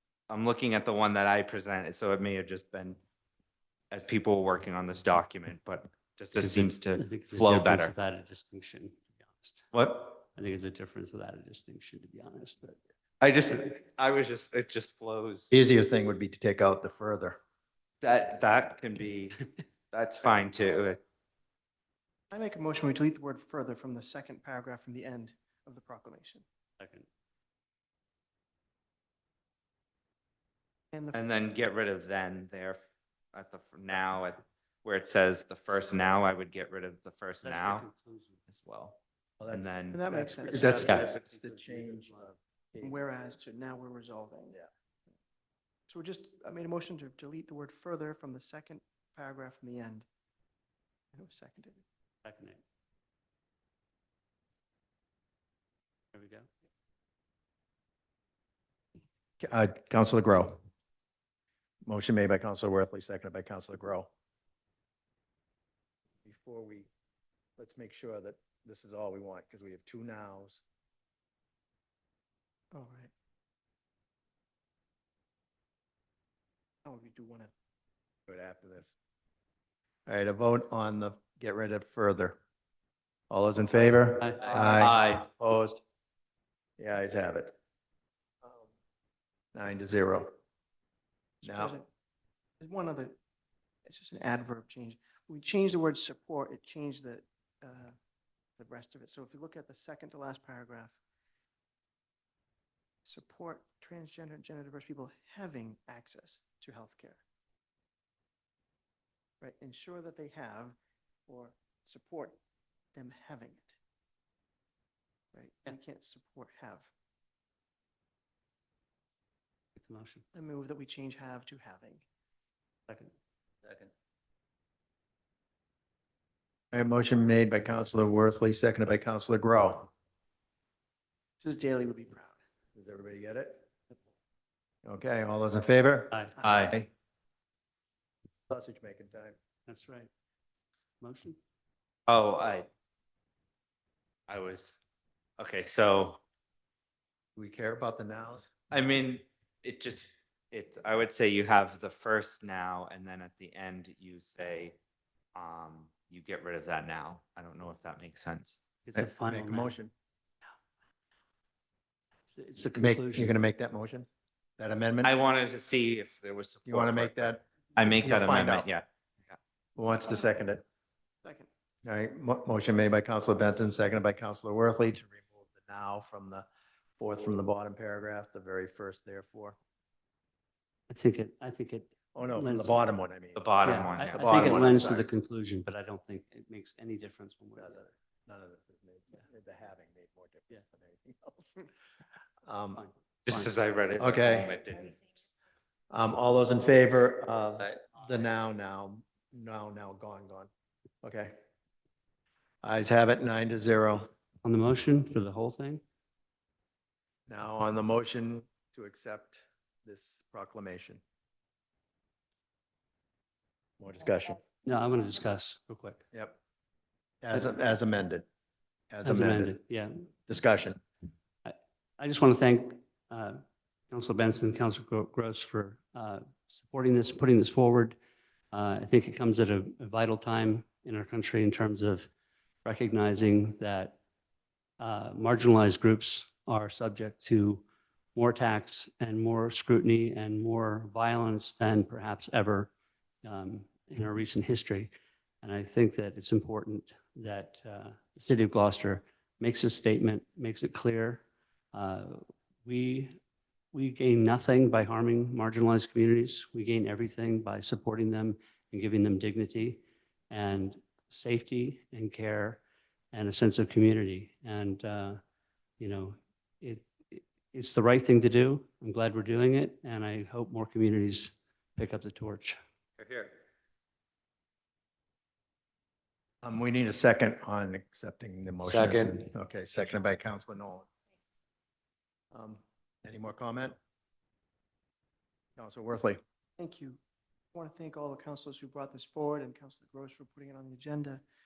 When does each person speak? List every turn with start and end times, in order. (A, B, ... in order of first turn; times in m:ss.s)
0:00.3-0:03.0 A
0:03.9-0:07.9 A
0:06.4-0:09.6 B
0:09.7-0:10.2 A
0:10.3-0:12.8 B
0:13.2-0:15.5 A
0:15.5-0:17.4 C
0:18.0-0:21.0 A
0:22.3-0:26.4 D
0:26.8-0:27.1 B
0:30.9-0:31.2 D
0:31.1-0:32.8 A
0:33.3-0:37.9 A
0:37.4-0:38.4 B
0:38.5-0:39.0 A
0:39.4-0:43.3 C
0:39.5-0:41.1 A
0:39.9-0:40.8 D
0:40.4-0:42.3 B
0:42.8-0:44.6 D
0:45.9-0:50.0 D
0:51.1-0:51.8 D
0:52.2-0:52.6 B
0:56.1-0:56.5 B
0:59.4-1:00.6 C
1:01.8-1:04.1 C
1:06.2-1:06.9 C
1:07.6-1:10.6 C
1:12.7-1:13.1 D
1:16.8-1:17.5 D
1:18.3-1:18.9 C
1:20.0-1:22.4 C
1:23.3-1:25.8 C
1:24.5-1:25.2 A
1:26.8-1:27.5 C
1:29.5-1:30.3 C
1:31.4-1:31.8 D
1:31.4-1:31.8 C
1:32.6-1:33.1 D
1:33.8-1:37.9 D
1:38.6-1:41.0 D
1:43.0-1:47.2 D
1:49.4-1:50.8 D
1:51.3-1:52.4 D
1:52.9-1:53.8 D
1:55.3-1:56.9 D
1:59.8-2:00.2 B
2:00.3-2:02.0 D
2:06.7-2:09.9 C
2:11.4-2:12.3 D
2:12.7-2:13.6 C
2:14.8-2:16.8 C
2:16.4-2:16.8 A
2:18.5-2:19.4 C
2:19.7-2:20.1 B
2:21.0-2:21.4 B
2:22.1-2:22.7 A
2:24.3-2:24.8 A
2:25.4-2:26.2 A
2:27.4-2:28.5 C
2:28.7-2:34.8 A
2:35.3-2:38.6 A
2:38.8-2:39.7 B
2:38.9-2:39.9 C
2:42.3-2:43.3 B
2:42.7-2:44.1 C
2:44.6-2:45.1 C
2:45.0-2:49.3 A
2:46.6-2:47.4 C
2:48.0-2:48.7 C
2:49.8-2:50.6 C
2:51.2-2:51.5 D
2:51.8-2:56.4 C
2:57.0-2:59.6 C
3:00.9-3:02.8 B
3:02.1-3:03.6 C
3:03.4-3:04.5 A
3:03.6-3:07.8 B
3:04.2-3:05.1 C
3:07.6-3:11.6 C
3:12.4-3:12.8 C
3:12.8-3:13.5 B
3:13.2-3:15.0 A
3:14.0-3:14.5 C
3:15.9-3:20.5 C
3:21.0-3:21.3 C
3:22.6-3:24.1 C
3:24.4-3:25.8 B
3:27.3-3:31.0 C
3:33.8-3:34.4 C
3:34.6-3:36.0 B
3:37.2-3:38.2 C
3:38.9-3:39.6 C
3:39.0-3:40.0 B
3:40.3-3:40.8 C
3:41.4-3:48.0 B
3:48.5-3:52.1 B
3:52.6-3:54.0 B
3:54.8-3:57.6 B
3:58.1-4:02.7 B
4:03.2-4:13.2 B
4:13.7-4:22.6 B
4:23.1-4:25.2 B
4:25.8-4:32.6 B
4:36.4-4:40.9 C
4:42.3-4:43.8 C
4:45.6-4:46.2 C
4:46.6-4:47.0 D
4:47.5-4:51.2 D